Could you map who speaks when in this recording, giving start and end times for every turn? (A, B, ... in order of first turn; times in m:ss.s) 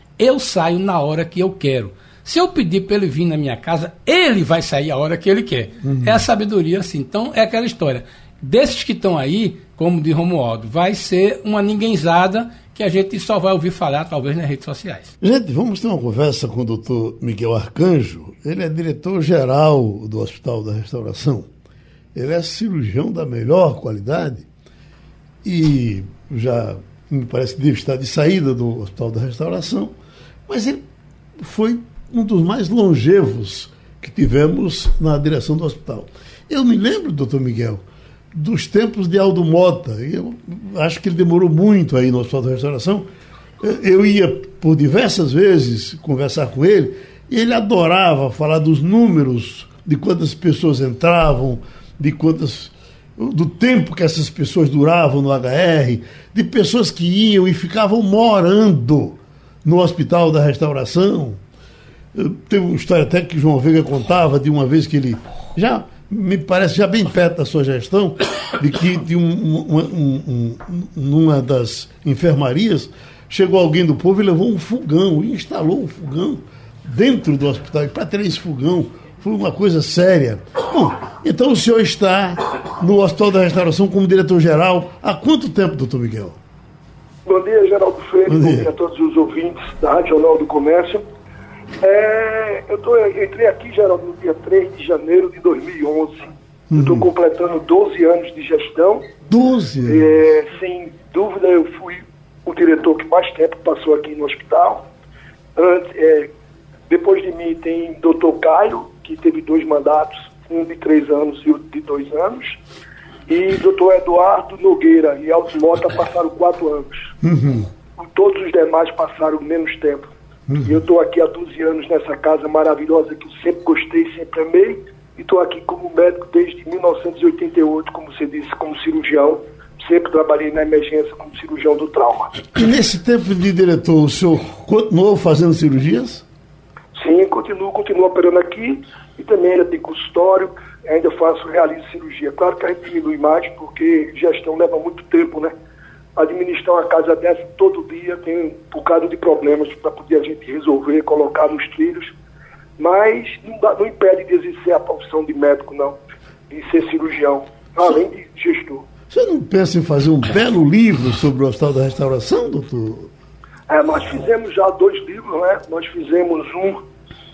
0:00.2-0:15.1 A
0:05.8-0:06.2 B
0:15.2-0:21.5 B
0:22.1-0:24.5 B
0:25.4-0:29.9 B
0:30.5-0:30.8 B
0:31.4-0:43.1 B
0:43.6-1:01.4 B
1:02.1-1:26.4 B
1:27.2-1:31.0 C
1:28.2-1:28.7 B
1:31.8-1:39.1 C
1:36.7-1:37.1 B
1:39.3-1:40.1 B
1:39.8-1:44.8 C
1:45.6-1:46.3 C
1:46.9-1:52.6 C
1:53.3-1:57.1 C
1:57.2-1:57.7 B
1:58.0-2:00.1 C
2:00.5-2:00.8 B
2:00.6-2:12.4 C
2:12.5-2:16.2 B
2:16.9-2:25.5 C
2:26.2-2:32.1 C
2:32.8-2:36.0 C
2:36.5-2:38.8 C
2:39.1-2:43.1 B
2:43.7-2:46.8 C